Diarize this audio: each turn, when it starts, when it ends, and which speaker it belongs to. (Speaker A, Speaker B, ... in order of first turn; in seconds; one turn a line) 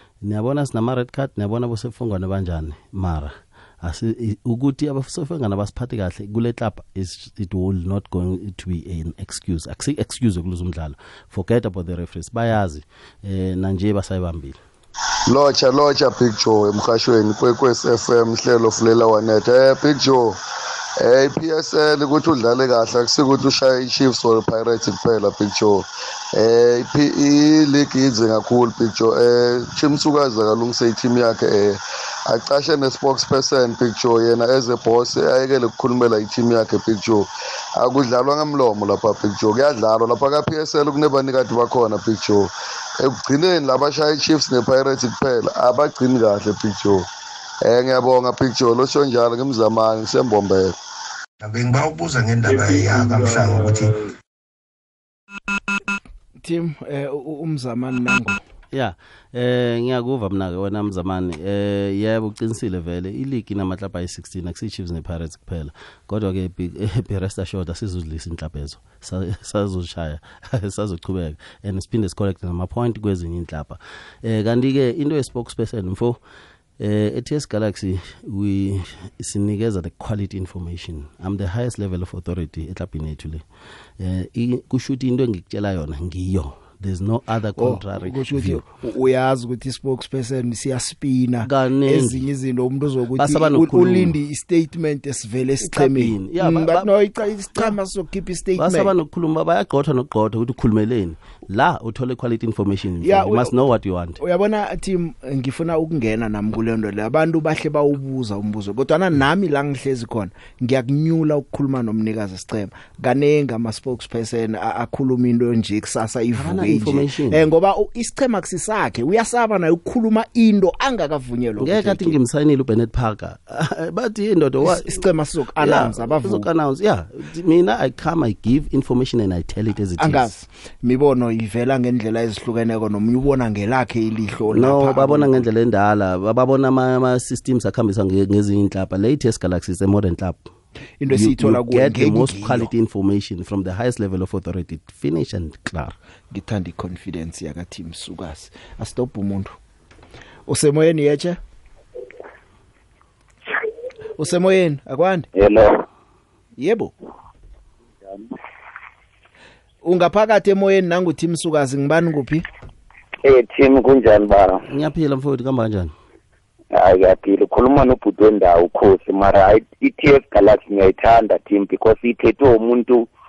Speaker A: 0.2-14.6
Speaker B: 15.3-20.4
Speaker B: 21.0-47.1
Speaker B: 47.6-50.7
Speaker C: 51.4-53.9
Speaker D: 56.4-58.4
Speaker A: 58.7-76.2
Speaker A: 76.8-83.4
Speaker A: 84.0-88.6
Speaker D: 87.6-98.9
Speaker A: 91.4-92.3
Speaker A: 93.2-94.2
Speaker A: 95.6-96.9
Speaker A: 98.6-104.2
Speaker D: 103.0-103.5
Speaker D: 104.2-122.2
Speaker A: 116.3-117.4
Speaker A: 121.6-125.0
Speaker D: 124.6-126.5
Speaker A: 125.6-130.3
Speaker D: 130.0-135.5
Speaker A: 134.5-140.5
Speaker D: 141.0-142.7
Speaker A: 141.1-145.9
Speaker D: 146.3-149.6
Speaker D: 150.5-151.4
Speaker D: 154.2-155.3
Speaker E: 155.3-155.8
Speaker D: 156.6-156.9
Speaker D: 159.8-162.4
Speaker E: 163.2-164.6
Speaker A: 164.7-165.9
Speaker E: 166.7-173.1